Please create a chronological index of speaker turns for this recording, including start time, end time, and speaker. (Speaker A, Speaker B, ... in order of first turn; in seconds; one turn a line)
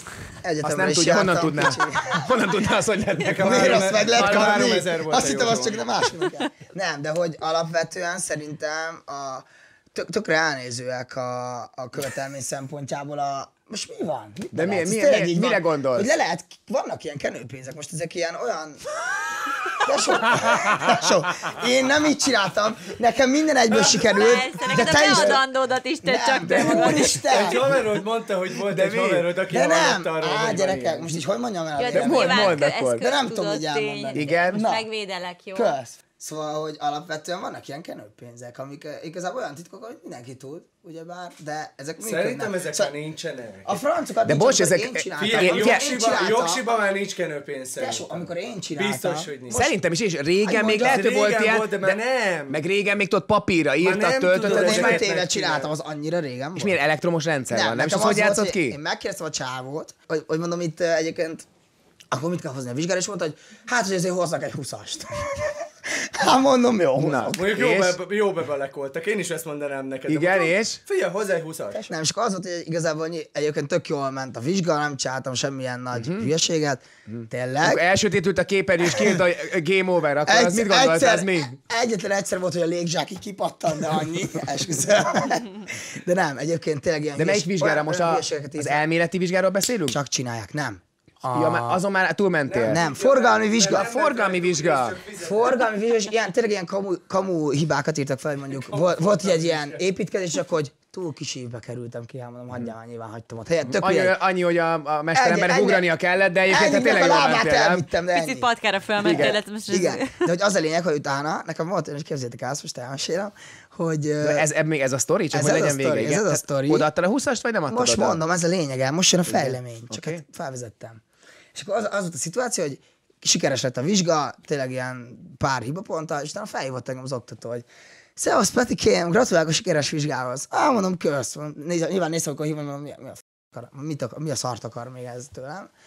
Speaker A: 0.4-2.3
Speaker B: 0.6-4.8
Speaker C: 3.2-5.9
Speaker A: 3.3-25.4
Speaker B: 14.5-16.1
Speaker B: 20.4-21.0
Speaker D: 24.1-27.2
Speaker B: 24.8-25.4
Speaker A: 26.0-27.8
Speaker C: 27.3-31.1
Speaker B: 28.7-29.3
Speaker A: 29.5-34.9
Speaker D: 31.8-35.7
Speaker B: 31.9-33.0
Speaker B: 34.1-34.6
Speaker A: 35.5-42.9
Speaker C: 42.0-43.8
Speaker A: 43.6-46.6
Speaker B: 44.2-45.9
Speaker C: 45.2-49.7
Speaker A: 47.8-49.6
Speaker B: 49.5-55.0
Speaker A: 50.4-51.0
Speaker C: 50.6-52.6
Speaker C: 53.8-55.7
Speaker A: 54.4-56.8
Speaker B: 56.6-58.8
Speaker A: 57.5-61.5
Speaker A: 62.1-67.6
Speaker B: 67.0-68.0
Speaker C: 67.3-71.8
Speaker B: 70.1-70.8
Speaker A: 71.7-77.8
Speaker B: 75.9-76.3
Speaker B: 77.1-81.5
Speaker A: 78.9-79.2
Speaker A: 80.2-88.8
Speaker B: 87.2-90.0
Speaker A: 89.9-91.8
Speaker B: 91.3-92.8
Speaker C: 92.5-95.6
Speaker A: 92.6-93.9
Speaker B: 93.7-95.0
Speaker A: 95.2-104.2
Speaker C: 98.5-99.8
Speaker B: 103.8-107.8
Speaker A: 105.1-105.9
Speaker A: 106.5-108.5
Speaker D: 108.1-110.1
Speaker A: 109.0-114.5
Speaker B: 109.0-109.3
Speaker B: 114.2-118.2
Speaker A: 115.3-116.9
Speaker A: 117.7-121.0
Speaker B: 119.2-120.2
Speaker A: 121.5-127.6
Speaker A: 128.2-135.7